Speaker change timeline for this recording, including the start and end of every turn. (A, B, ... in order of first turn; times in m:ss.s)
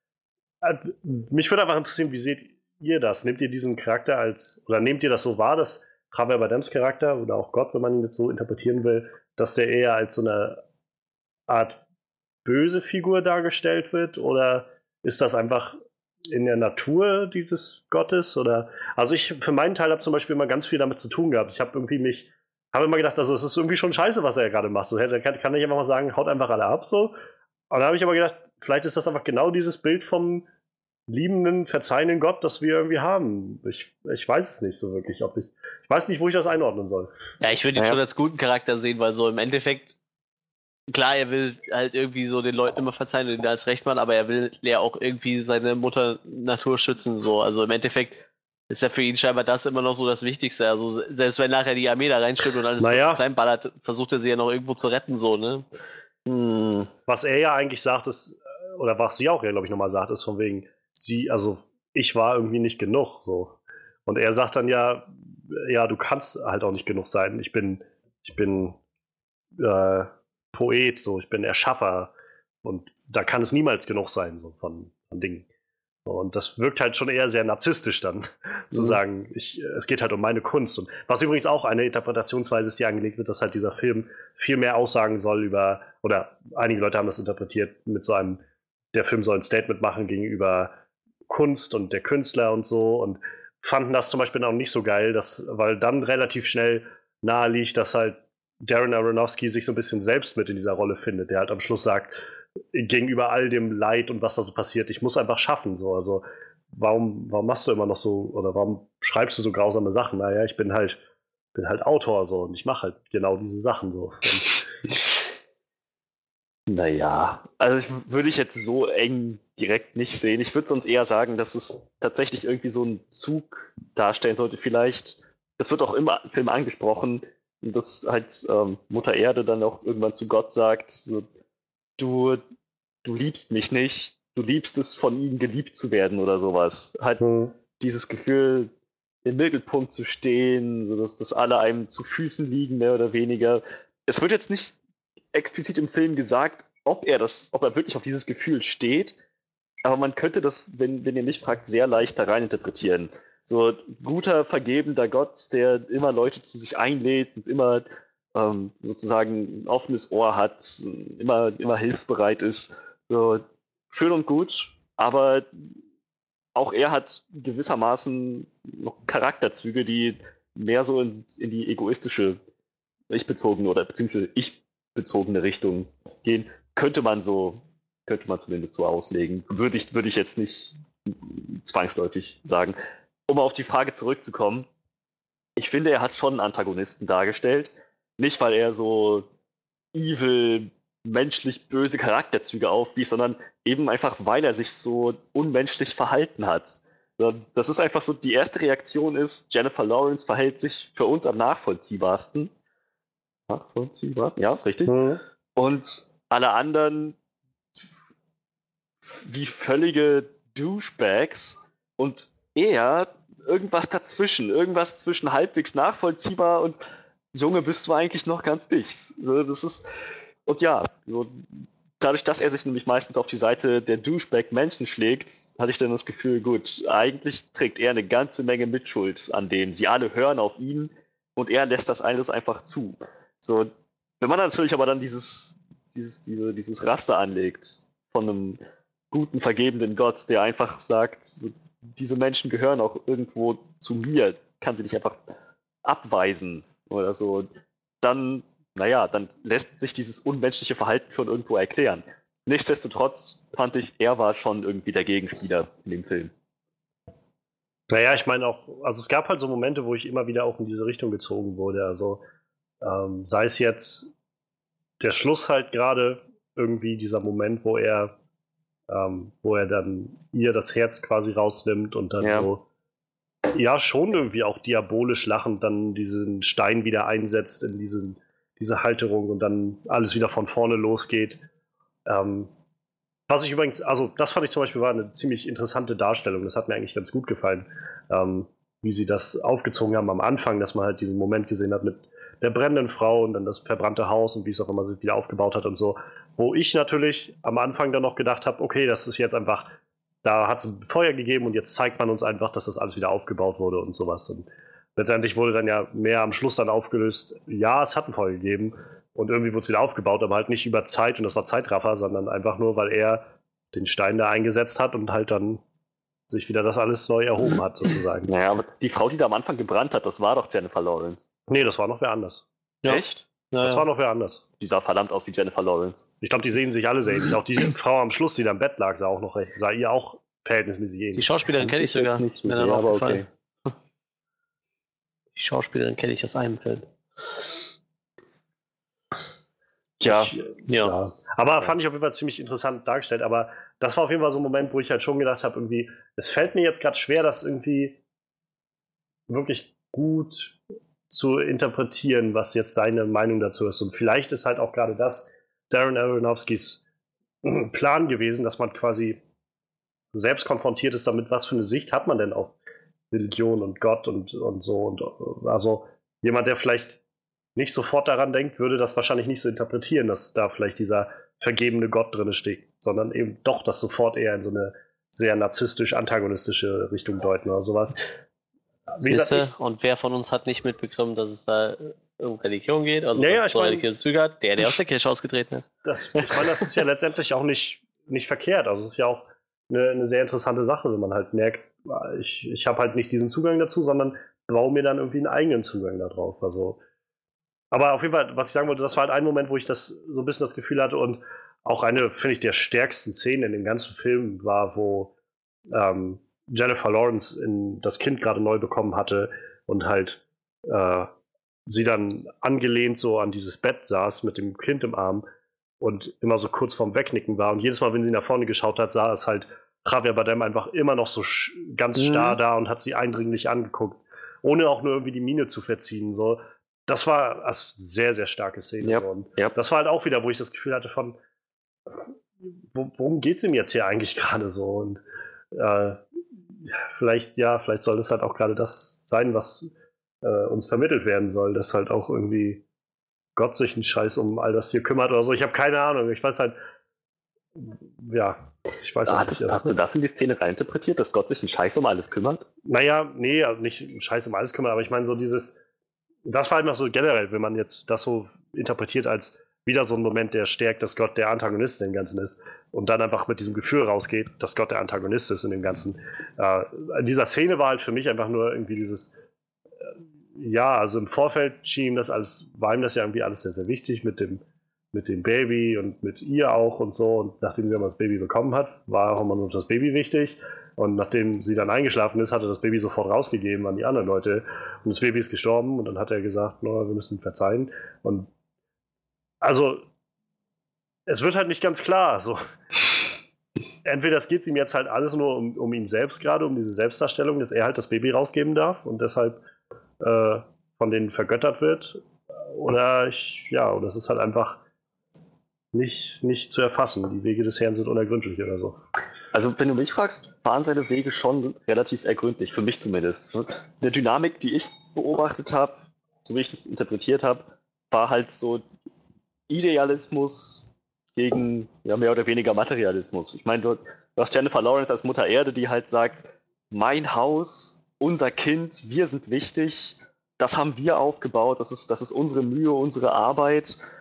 0:00.6-0:10.6 A
0:11.5-0:11.8 A
0:12.4-0:15.8 A
0:16.3-0:27.1 A
0:27.7-0:30.5 A
0:31.1-0:37.1 A
0:37.4-0:40.0 B
0:37.8-0:38.0 C
0:40.9-0:55.6 B
0:52.8-0:53.2 A
0:56.3-0:56.9 C
0:57.1-1:08.8 A
1:09.6-1:12.1 A
1:12.6-1:15.5 A
1:16.0-1:28.4 A
1:28.9-1:30.8 A
1:31.3-1:42.2 A
1:42.7-1:51.0 A
1:51.5-1:54.6 A
1:56.7-2:11.3 C
2:12.0-2:12.4 C
2:13.0-2:17.3 C
2:17.2-2:17.6 A
2:17.8-2:18.7 C
2:19.2-2:24.8 C
2:25.3-2:29.2 C
2:29.8-2:45.5 C
2:46.6-2:52.4 C
2:53.1-3:02.8 C
3:03.3-3:04.7 C
3:05.6-3:09.3 C
3:09.9-3:22.5 C
3:23.5-3:24.9 C
3:24.9-3:25.2 A
3:25.6-3:27.2 C
3:29.0-3:36.8 C
3:37.3-3:39.8 C
3:40.5-3:53.7 C
3:54.2-3:58.6 C
3:59.1-4:05.2 C
4:05.8-4:07.5 C
4:08.0-4:16.3 C
4:17.9-4:22.2 A
4:22.8-4:24.1 A
4:25.0-4:28.2 A
4:28.9-4:32.6 A
4:32.2-4:32.5 C
4:33.5-4:41.5 A
4:42.1-4:42.5 A
4:43.3-5:15.6 A
5:16.3-5:18.3 A
5:18.3-5:21.2 C
5:21.5-5:22.5 A
5:22.8-5:23.9 B
5:22.9-5:23.2 C
5:23.6-5:24.4 A
5:24.6-5:26.1 C
5:26.2-5:31.2 A
5:31.2-5:33.2 B
5:31.6-5:33.3 C
5:35.4-5:36.9 B
5:40.0-5:40.3 C
5:40.0-5:48.0 A
5:40.7-5:41.0 B
5:49.3-5:50.6 A
5:51.1-5:56.8 A
5:57.4-5:59.2 A
6:00.1-6:02.6 A
6:03.1-6:07.0 A
6:07.6-6:18.0 A
6:18.9-6:19.6 A
6:19.0-6:25.7 B
6:23.2-6:23.9 A
6:25.8-6:36.8 A
6:37.7-6:45.1 A
6:45.7-6:51.1 A
6:51.7-6:55.2 A
6:55.8-7:11.2 A
7:02.0-7:02.4 C
7:08.8-7:09.5 C
7:12.7-7:19.7 A
7:20.2-7:22.6 A
7:23.4-7:26.6 A
7:27.6-7:29.8 A
7:29.1-7:32.4 C
7:32.6-7:35.6 A
7:36.3-7:49.2 A
7:50.4-8:08.3 A
8:09.4-8:09.9 A
8:11.1-8:12.4 A
8:13.8-8:19.4 A
8:20.0-8:24.6 A
8:25.7-8:28.8 A
8:29.3-8:38.6 C
8:39.5-8:53.8 C